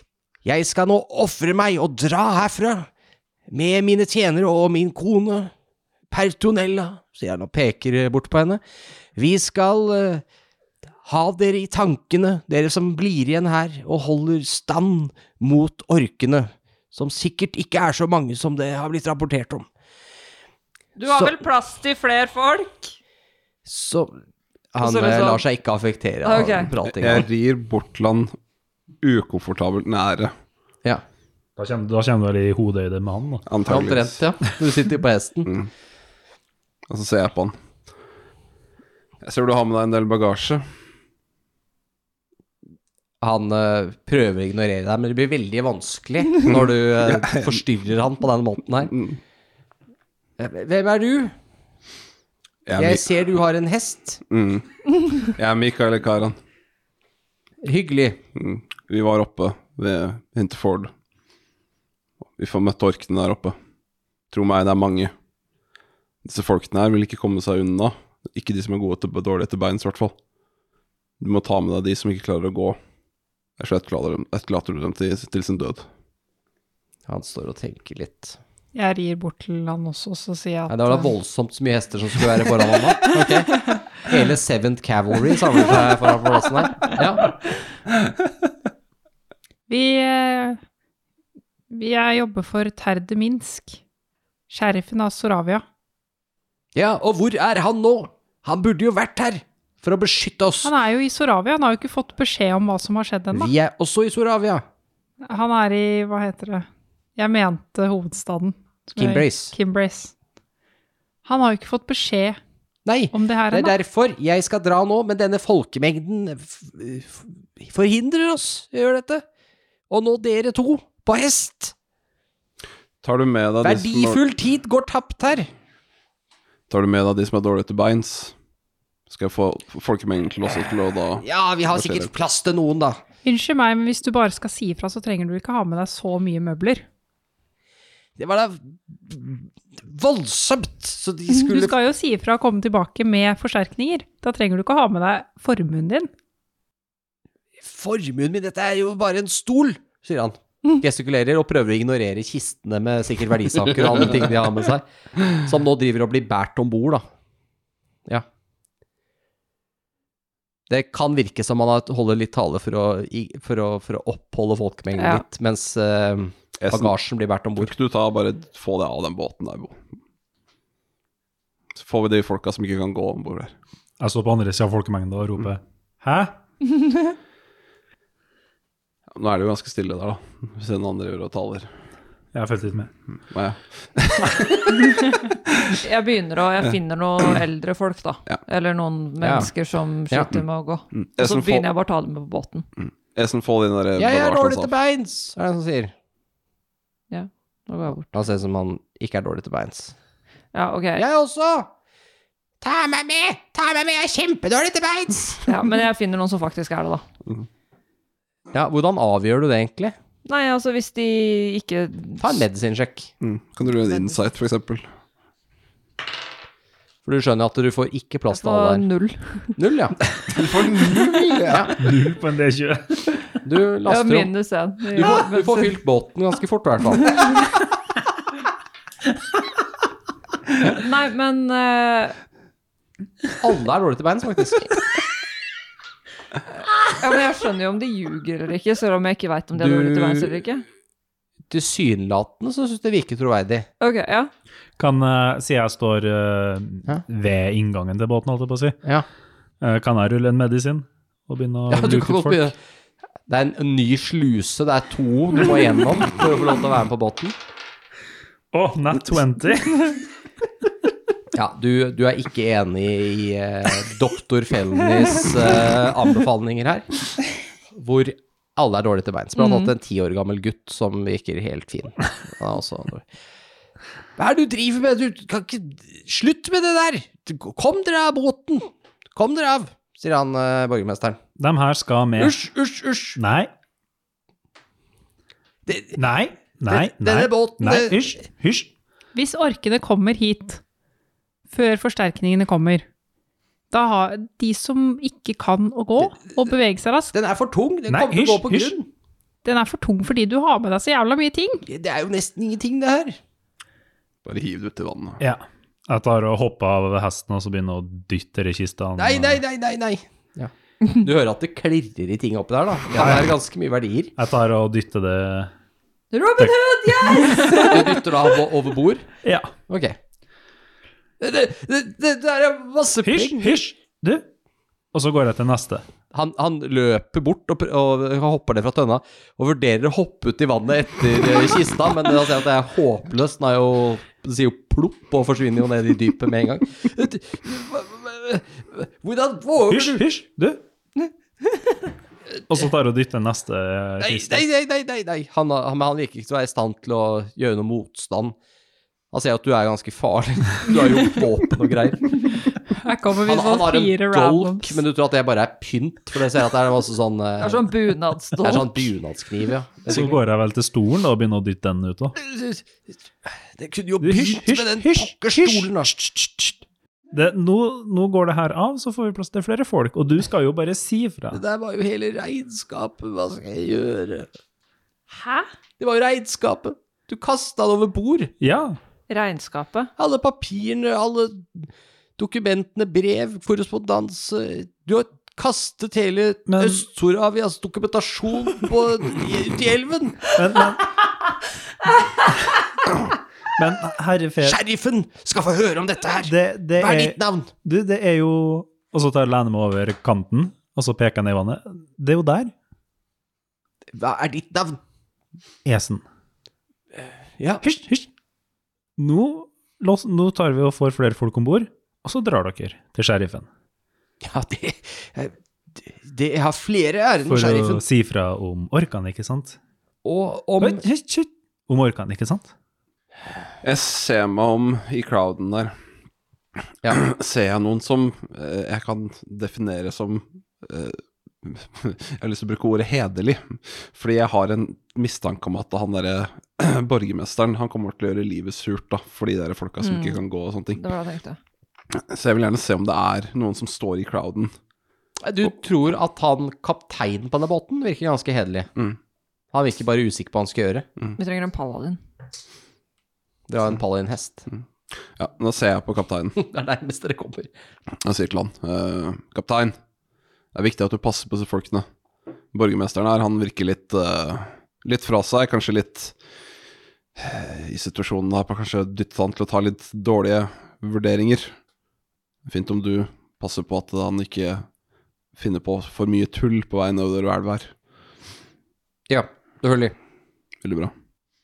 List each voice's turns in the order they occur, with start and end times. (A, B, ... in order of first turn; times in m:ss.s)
0:00.4-0:02.9 A
0:03.5-0:05.5 A
0:06.1-0:08.6 A
0:09.2-0:10.2 A
0:11.0-0:19.7 A
0:21.0-0:22.9 B
0:21.0-0:21.4 A
0:23.6-0:24.2 A
0:24.7-0:27.3 A
0:24.8-0:25.4 B
0:26.2-0:26.7 B
0:26.8-0:28.3 C
0:29.0-0:30.3 C
0:31.6-0:33.4 D
0:33.5-0:34.2 C
0:33.6-0:35.5 A
0:36.9-0:37.6 C
0:39.2-0:40.6 C
0:43.2-0:49.0 A
0:46.4-0:47.6 C
0:50.4-0:51.3 A
0:52.6-0:53.2 C
0:52.8-0:54.2 A
0:54.3-0:56.4 C
0:57.6-0:58.2 A
0:58.3-1:00.9 C
1:02.4-1:03.6 C
1:04.3-1:05.1 C
1:06.2-1:10.1 C
1:11.2-1:12.8 C
1:13.6-1:15.9 C
1:17.1-1:18.4 A
1:18.7-1:21.1 E
1:20.7-1:27.3 A
1:29.7-1:30.6 E
1:31.7-1:33.8 E
1:34.5-1:35.6 E
1:36.7-1:40.7 A
1:40.6-1:43.5 E
1:43.3-1:44.6 A
1:45.2-1:50.1 E
1:49.0-1:49.5 A
1:51.2-1:52.4 E
1:52.8-1:59.2 A
1:53.1-1:53.7 E
1:59.9-2:01.7 A
2:03.0-2:04.2 C
2:03.6-2:05.5 A
2:06.7-2:08.3 C
2:09.1-2:12.1 C
2:11.2-2:13.0 A
2:13.2-2:16.8 E
2:18.2-2:21.8 A
2:21.4-2:26.1 E
2:27.6-2:37.0 A
2:40.7-2:47.7 A
2:45.0-2:45.2 B
2:46.6-2:46.9 C
2:47.6-2:49.8 C
2:51.7-2:53.5 C
2:54.0-2:56.4 D
2:59.1-3:01.7 C
3:02.3-3:02.9 D
3:03.3-3:05.8 C
3:05.7-3:12.7 B
3:09.2-3:09.5 A
3:10.9-3:11.6 C
3:12.8-3:14.7 C
3:14.0-3:15.9 A
3:17.1-3:18.0 B
3:18.0-3:19.9 A
3:20.5-3:21.0 B
3:21.0-3:21.7 A
3:22.6-3:25.4 A
3:25.4-3:27.0 B
3:28.5-3:29.9 A
3:30.2-3:32.4 B
3:32.2-3:33.1 A
3:33.2-3:34.9 C
3:37.0-3:38.8 A
3:38.3-3:39.6 B
3:39.6-3:40.0 A
3:40.3-3:41.7 C
3:41.4-3:41.7 A
3:41.8-3:43.4 D
3:43.4-3:44.3 A
3:43.8-3:45.8 B
3:44.9-3:47.2 A
3:50.6-3:52.2 B
3:53.4-3:54.7 A
3:56.9-4:00.6 B
3:59.6-4:00.4 A
4:01.5-4:03.7 A
4:03.8-4:04.3 B
4:04.8-4:08.8 D
4:09.6-4:12.5 D
4:11.7-4:12.6 A
4:13.3-4:17.3 A
4:18.5-4:20.0 D
4:21.3-4:26.9 A
4:27.7-4:33.0 A
4:29.4-4:29.7 B
4:34.2-4:41.2 A
4:41.4-4:42.4 D
4:42.2-4:43.2 A
4:43.2-4:43.5 D
4:45.7-4:46.0 A
4:45.9-4:48.7 D
4:46.7-4:48.2 A
4:49.1-4:50.6 E
4:51.5-4:52.8 E
4:53.7-4:57.1 E
4:57.1-4:58.9 A
4:57.9-4:58.7 D
4:59.4-5:01.6 E
5:01.6-5:03.2 A
5:04.2-5:05.2 C
5:05.2-5:09.4 D
5:09.0-5:14.1 A
5:12.9-5:13.3 D
5:14.2-5:15.5 D
5:16.1-5:18.3 B
5:17.5-5:19.1 A
5:19.2-5:19.5 D
5:19.7-5:20.0 A
5:21.2-5:23.6 A
5:23.0-5:24.3 D
5:24.9-5:25.8 D
5:26.1-5:40.0 A
5:39.7-5:40.6 D
5:42.5-5:44.4 D
5:44.0-5:48.4 A
5:49.1-5:52.3 A
5:52.7-5:54.8 E
5:53.2-5:57.6 A
5:57.4-5:58.9 B
5:58.4-6:00.2 A
5:59.9-6:02.1 D
6:02.2-6:05.9 A
6:04.0-6:06.6 D
6:07.1-6:11.4 D
6:11.3-6:14.3 A
6:15.1-6:15.5 B
6:15.8-6:18.3 A
6:18.4-6:18.8 D
6:19.1-6:19.9 B
6:20.0-6:30.3 A
6:26.5-6:26.8 D
6:30.3-6:30.9 D
6:33.6-6:34.6 D
6:34.4-6:37.5 A
6:36.2-6:42.5 D
6:43.9-6:44.8 A
6:45.6-6:46.0 D
6:47.4-6:47.6 A
6:47.6-6:48.1 D
6:49.0-6:53.5 D
6:54.2-6:57.8 A
6:57.3-6:59.6 D
7:00.0-7:00.8 A
7:00.6-7:02.5 D
7:03.6-7:05.7 C
7:06.9-7:20.8 C
7:19.8-7:20.2 B
7:20.7-7:21.4 B
7:21.9-7:24.5 C
7:25.2-7:28.7 A
7:29.5-7:30.8 A
7:31.2-7:32.0 B
7:33.5-7:34.5 A
7:34.9-7:36.4 C
7:36.3-7:37.5 A
7:38.0-7:39.7 C
7:40.5-7:41.8 C
7:42.5-7:46.2 C
7:47.2-7:51.5 C
7:52.4-7:54.6 C
7:55.3-7:57.7 C
7:59.1-7:59.9 A
8:00.6-8:00.9 C